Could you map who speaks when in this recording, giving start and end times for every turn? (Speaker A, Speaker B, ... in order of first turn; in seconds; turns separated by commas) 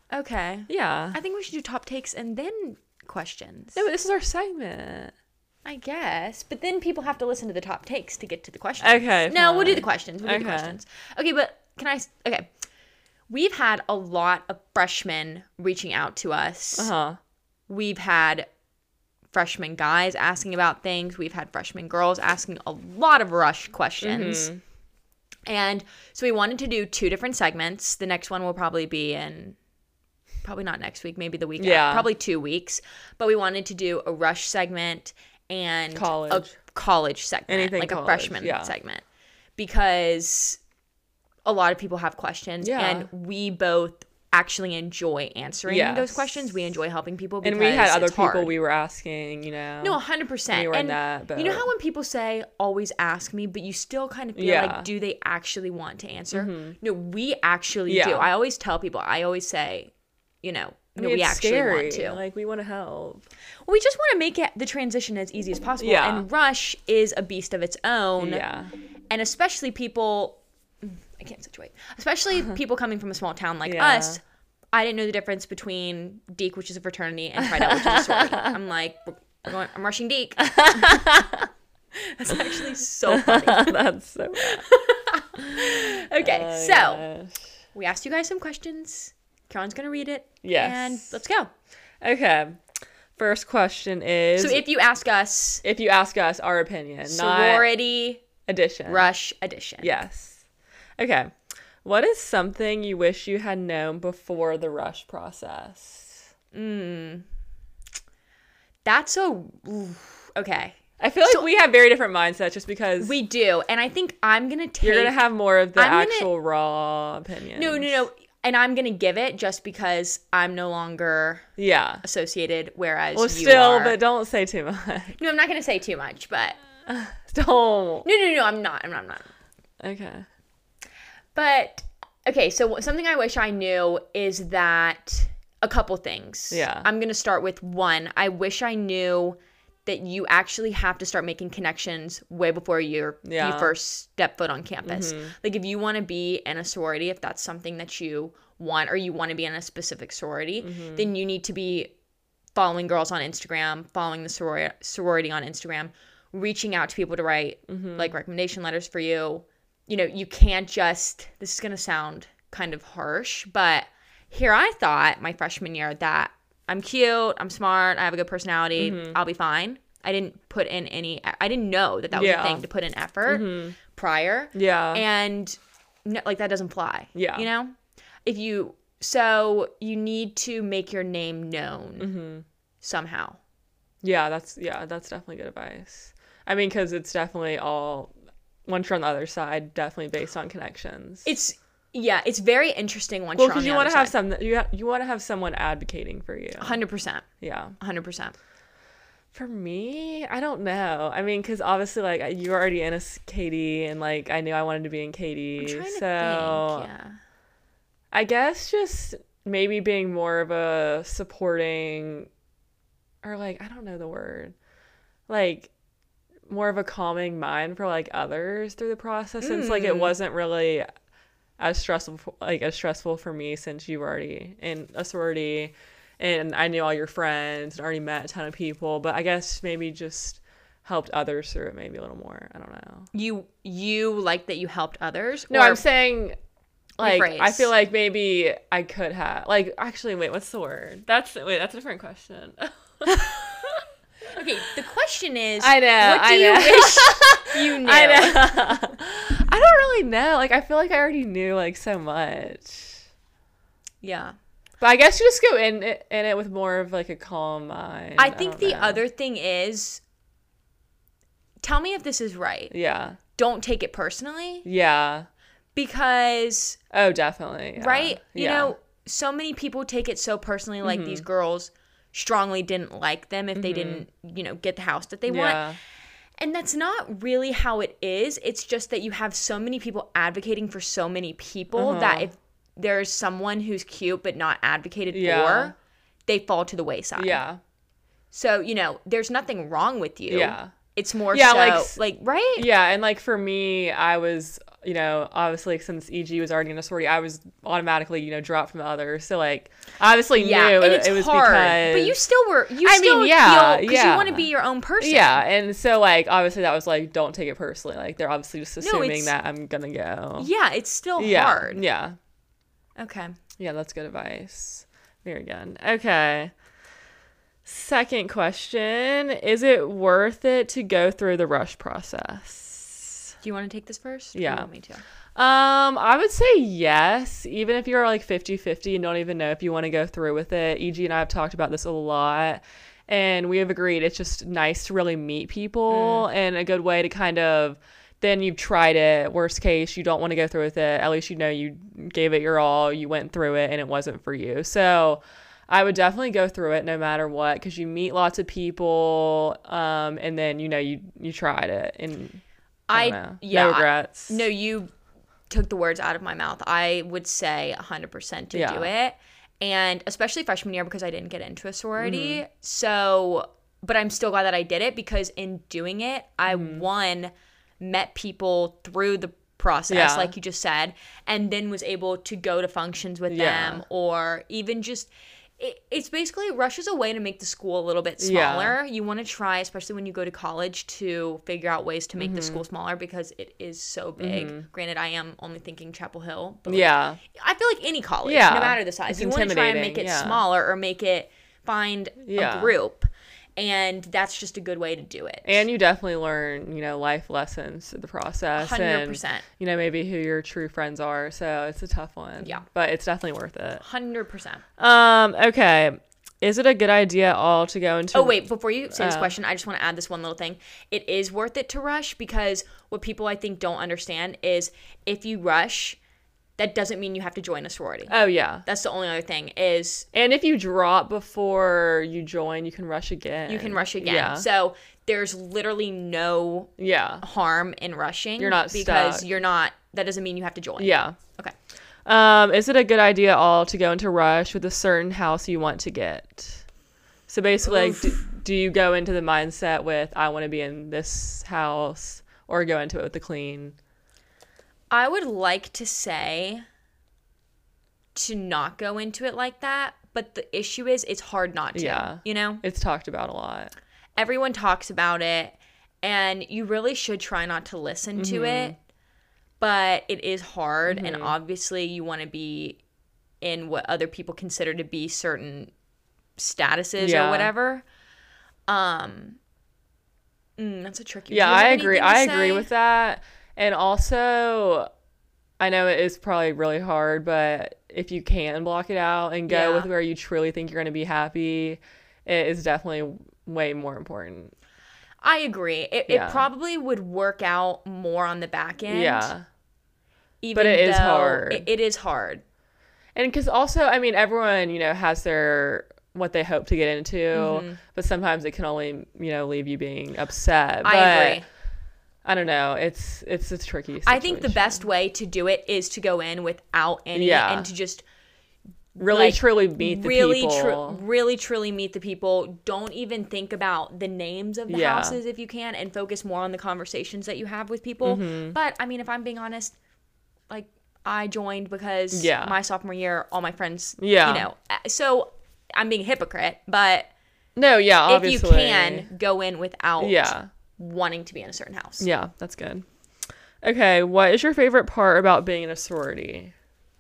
Speaker A: 0.1-3.8, Speaker B: 0.7-1.2, Speaker B: 3.7-5.1, Speaker A: 5.6-12.5, Speaker B: 8.8-10.8, Speaker A: 13.3-16.9, Speaker B: 16.7-17.2, Speaker A: 17.7-18.5, Speaker A: 19.3-24.5, Speaker B: 24.0-24.6, Speaker A: 25.5-29.6, Speaker A: 30.4-39.0, Speaker B: 31.6-32.1, Speaker B: 35.9-36.5, Speaker B: 37.5-38.7, Speaker A: 39.6-40.6, Speaker A: 41.4-48.5, Speaker B: 42.6-43.1, Speaker B: 45.7-46.5, Speaker B: 47.4-50.0, Speaker A: 49.8-59.9, Speaker B: 50.5-51.7, Speaker B: 54.3-54.9, Speaker B: 56.3-56.8, Speaker B: 57.9-58.3, Speaker A: 60.4-62.2, Speaker B: 61.0-63.2, Speaker A: 63.6-68.4, Speaker B: 65.8-66.2, Speaker B: 68.2-68.7, Speaker A: 69.1-74.2, Speaker B: 73.6-74.2, Speaker A: 74.7-81.1, Speaker B: 77.4-78.5, Speaker B: 80.4-81.5, Speaker A: 82.0-83.8, Speaker B: 83.1-84.7, Speaker A: 84.4-87.0, Speaker B: 85.3-87.4, Speaker A: 87.7-91.5, Speaker B: 90.4-91.2, Speaker B: 92.0-92.6, Speaker B: 93.2-94.6, Speaker A: 94.4-95.6, Speaker B: 95.6-97.7, Speaker A: 97.0-98.2, Speaker B: 98.4-99.1, Speaker A: 98.9-99.9, Speaker B: 99.8-100.4, Speaker B: 101.0-106.3, Speaker A: 106.5-107.2, Speaker A: 108.8-111.5, Speaker B: 111.0-113.1, Speaker A: 113.0-116.3, Speaker B: 114.8-118.0, Speaker A: 117.5-121.5, Speaker B: 121.6-122.0, Speaker A: 122.0-124.0, Speaker B: 123.1-125.2, Speaker A: 125.2-126.6, Speaker B: 126.9-128.1, Speaker A: 128.0-129.3, Speaker B: 129.8-130.2, Speaker A: 131.3-151.9, Speaker B: 136.5-136.9, Speaker B: 143.2-143.7, Speaker B: 144.8-145.3, Speaker B: 150.6-151.1, Speaker A: 152.5-177.7, Speaker B: 157.7-158.1, Speaker B: 168.8-169.2, Speaker B: 172.1-172.6, Speaker B: 173.2-173.8, Speaker B: 174.5-175.0, Speaker B: 177.1-177.5, Speaker A: 178.2-182.1, Speaker B: 182.0-182.4, Speaker A: 182.8-183.4, Speaker B: 184.0-188.1, Speaker B: 188.7-191.3, Speaker A: 191.2-194.1, Speaker B: 193.4-196.8, Speaker A: 196.6-197.2, Speaker B: 197.4-197.8, Speaker A: 197.8-198.3, Speaker B: 199.3-206.9, Speaker A: 205.6-207.2, Speaker B: 208.1-212.3, Speaker B: 213.2-214.5, Speaker B: 215.3-215.7, Speaker B: 216.5-220.9, Speaker A: 219.4-220.1, Speaker B: 221.6-233.1, Speaker A: 233.1-235.8, Speaker B: 235.5-236.3, Speaker A: 237.0-237.7, Speaker B: 237.0-243.9, Speaker A: 244.3-248.6, Speaker B: 245.6-253.0, Speaker A: 254.0-254.3, Speaker B: 254.8-259.0, Speaker A: 258.2-260.0, Speaker A: 261.6-262.7, Speaker B: 262.7-263.2, Speaker A: 263.4-264.6, Speaker B: 264.6-265.3, Speaker A: 265.8-266.8, Speaker B: 266.9-268.7, Speaker A: 267.8-275.6, Speaker B: 270.8-271.2, Speaker B: 273.5-274.0, Speaker B: 275.3-275.8, Speaker A: 276.4-285.7, Speaker B: 281.7-282.3, Speaker B: 285.1-285.7, Speaker A: 286.3-287.4, Speaker B: 287.1-287.6, Speaker A: 288.3-292.7, Speaker B: 290.3-290.7, Speaker B: 291.3-292.0, Speaker B: 292.6-302.2, Speaker A: 300.4-305.4, Speaker B: 302.8-310.5, Speaker A: 308.8-309.3, Speaker A: 310.4-311.8, Speaker B: 311.2-312.2, Speaker A: 313.0-313.3, Speaker B: 313.6-316.5, Speaker B: 317.6-323.3, Speaker A: 323.4-325.0, Speaker B: 324.3-324.7, Speaker B: 325.4-352.4, Speaker A: 335.9-336.2, Speaker A: 352.9-354.9, Speaker B: 352.9-354.4, Speaker A: 355.5-395.6, Speaker B: 358.5-358.9, Speaker B: 362.0-362.4, Speaker B: 366.5-366.8, Speaker B: 369.9-370.3, Speaker B: 373.3-373.8, Speaker B: 378.2-378.8, Speaker B: 382.1-382.6, Speaker B: 384.2-384.7, Speaker B: 386.6-387.2, Speaker B: 388.2-390.4, Speaker B: 392.2-392.7, Speaker B: 395.4-403.8, Speaker A: 398.6-399.4, Speaker A: 402.4-402.6, Speaker A: 403.8-404.6, Speaker B: 404.8-408.4, Speaker A: 408.1-416.0, Speaker B: 408.9-409.3, Speaker A: 416.6-420.1, Speaker B: 418.1-418.6, Speaker B: 420.1-424.4, Speaker A: 423.5-431.5, Speaker B: 426.8-427.2, Speaker B: 428.4-429.3, Speaker B: 430.8-431.1, Speaker B: 432.0-436.6, Speaker B: 437.3-443.8, Speaker A: 437.6-438.2, Speaker A: 444.9-446.6, Speaker A: 448.1-452.6, Speaker B: 451.7-453.7, Speaker A: 454.2-458.8, Speaker B: 458.1-458.7, Speaker A: 459.6-462.8, Speaker B: 460.9-461.3, Speaker A: 463.4-465.7, Speaker A: 466.4-467.8, Speaker B: 467.0-467.5, Speaker A: 468.7-469.4, Speaker A: 470.6-472.7, Speaker B: 471.3-474.9, Speaker B: 475.6-484.5, Speaker A: 479.5-479.9, Speaker A: 485.2-489.3, Speaker B: 486.1-486.5, Speaker B: 488.9-489.4, Speaker A: 490.4-492.4, Speaker B: 490.5-491.7, Speaker B: 493.1-501.4, Speaker A: 497.3-497.8, Speaker A: 500.8-501.4, Speaker B: 502.2-504.8, Speaker A: 504.1-508.0, Speaker B: 507.1-507.7, Speaker A: 508.9-519.8, Speaker B: 509.0-511.0, Speaker B: 514.7-515.2, Speaker B: 518.0-518.5, Speaker A: 520.5-527.1, Speaker B: 522.1-522.5, Speaker B: 524.0-524.5, Speaker B: 527.5-529.1, Speaker A: 528.1-532.1, Speaker B: 530.0-530.5, Speaker B: 532.0-532.9, Speaker B: 533.6-536.5